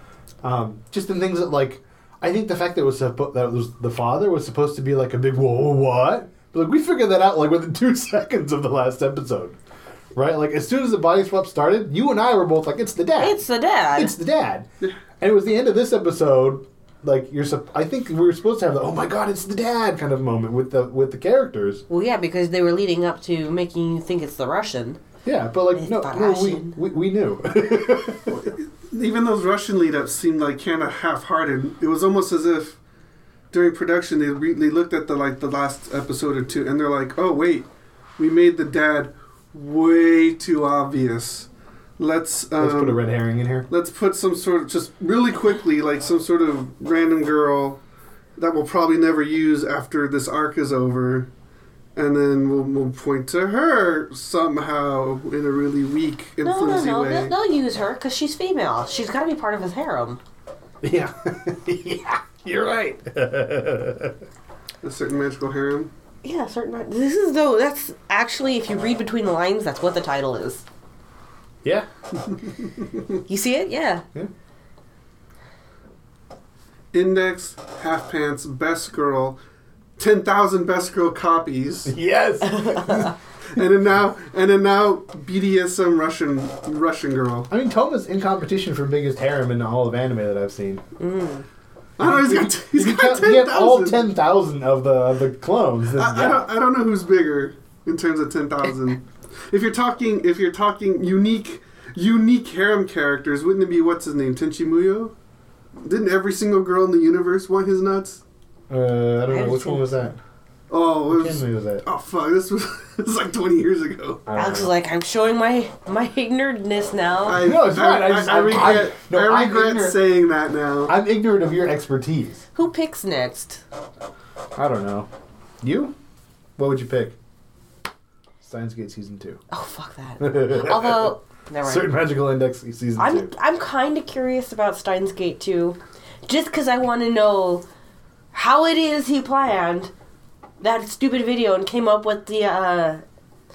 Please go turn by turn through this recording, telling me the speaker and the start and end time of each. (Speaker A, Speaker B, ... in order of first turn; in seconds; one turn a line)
Speaker A: 0.4-9.6
Speaker A: 10.1-14.7
Speaker B: 13.2-14.2
Speaker A: 15.2-21.8
Speaker B: 21.9-25.0
Speaker A: 25.2-28.4
Speaker B: 25.7-26.8
Speaker C: 28.3-32.8
Speaker C: 33.5-37.7
Speaker C: 38.2-43.0
Speaker A: 42.6-43.7
Speaker C: 43.7-47.8
Speaker C: 48.4-51.3
Speaker C: 52.0-57.3
Speaker B: 56.4-60.2
Speaker A: 60.8-64.1
Speaker C: 64.8-65.9
Speaker B: 66.2-70.6
Speaker C: 72.5-73.0
Speaker B: 73.3-74.0
Speaker C: 76.9-79.4
Speaker C: 80.0-81.9
Speaker A: 81.8-83.1
Speaker B: 82.4-83.1
Speaker C: 83.5-87.5
Speaker A: 87.5-90.8
Speaker B: 91.0-91.5
Speaker C: 92.0-94.0
Speaker A: 92.0-96.5
Speaker C: 96.0-105.1
Speaker C: 105.8-108.2
Speaker A: 108.7-110.2
Speaker B: 109.2-110.1
Speaker C: 110.7-114.2
Speaker A: 111.1-111.8
Speaker A: 114.2-114.7
Speaker B: 114.3-117.5
Speaker C: 117.2-120.9
Speaker A: 117.3-120.0
Speaker A: 120.9-122.4
Speaker B: 122.5-123.6
Speaker A: 124.5-125.1
Speaker A: 125.6-125.9
Speaker A: 126.6-127.2
Speaker A: 128.4-129.4
Speaker B: 129.5-132.0
Speaker A: 130.2-133.3
Speaker B: 133.0-137.6
Speaker B: 138.3-139.9
Speaker B: 140.6-143.0